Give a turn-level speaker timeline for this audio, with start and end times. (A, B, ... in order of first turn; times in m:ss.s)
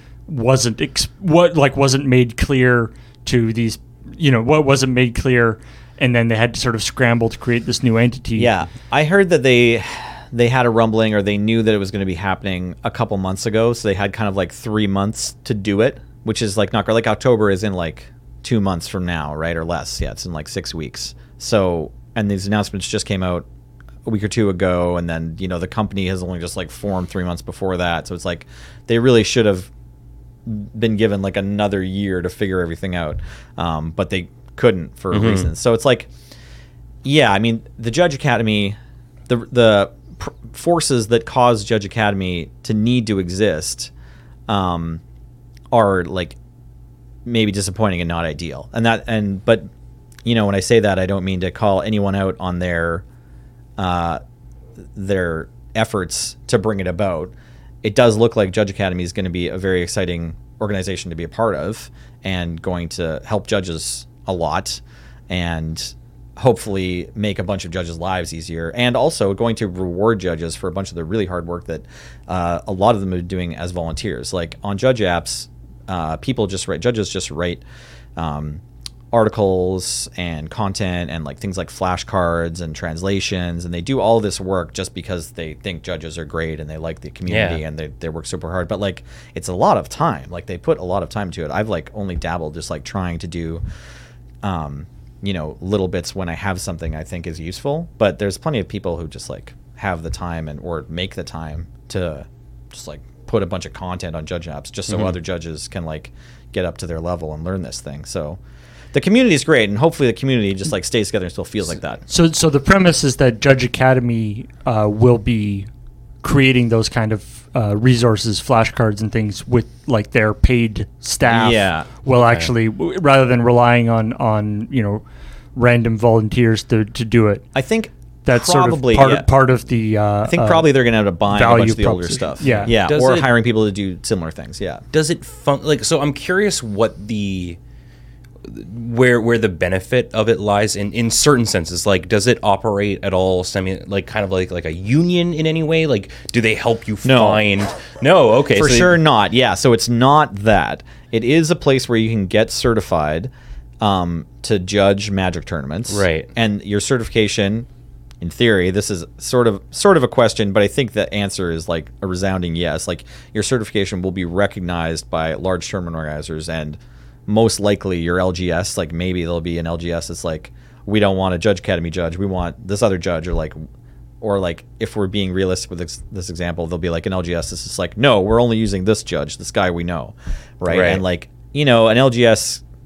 0:00.3-0:08.5 A
0:08.4-0:23.4 B
0:24.0-0:29.7 B
0:30.4-0:36.1 B
0:35.1-0:35.5 C
0:37.0-0:38.8 B
0:39.3-0:43.9 B
0:44.5-0:45.0 B
0:45.7-0:46.4 B
0:47.2-0:49.7 B
0:50.2-0:53.0 B
0:53.8-0:54.2 B
0:54.9-1:17.6 B
1:18.2-1:33.6 B
1:27.3-1:27.6 C
1:34.4-1:48.4 B
1:48.9-1:52.1 B
1:52.1-1:55.7 A
1:56.2-2:05.0 A
2:01.2-2:01.9 B
2:02.2-2:02.5 C
2:05.5-2:07.4 A
2:07.5-2:09.3 B
2:08.2-2:10.7 A
2:10.2-2:14.8 B
2:11.3-2:12.8 A
2:12.4-2:13.3 C
2:14.9-2:17.6 C
2:18.4-2:29.0 C
2:27.0-2:27.4 B
2:28.5-2:37.7 B
2:35.9-2:36.3 C
2:38.2-2:53.6 B
2:54.2-3:02.6 B
3:00.7-3:01.0 C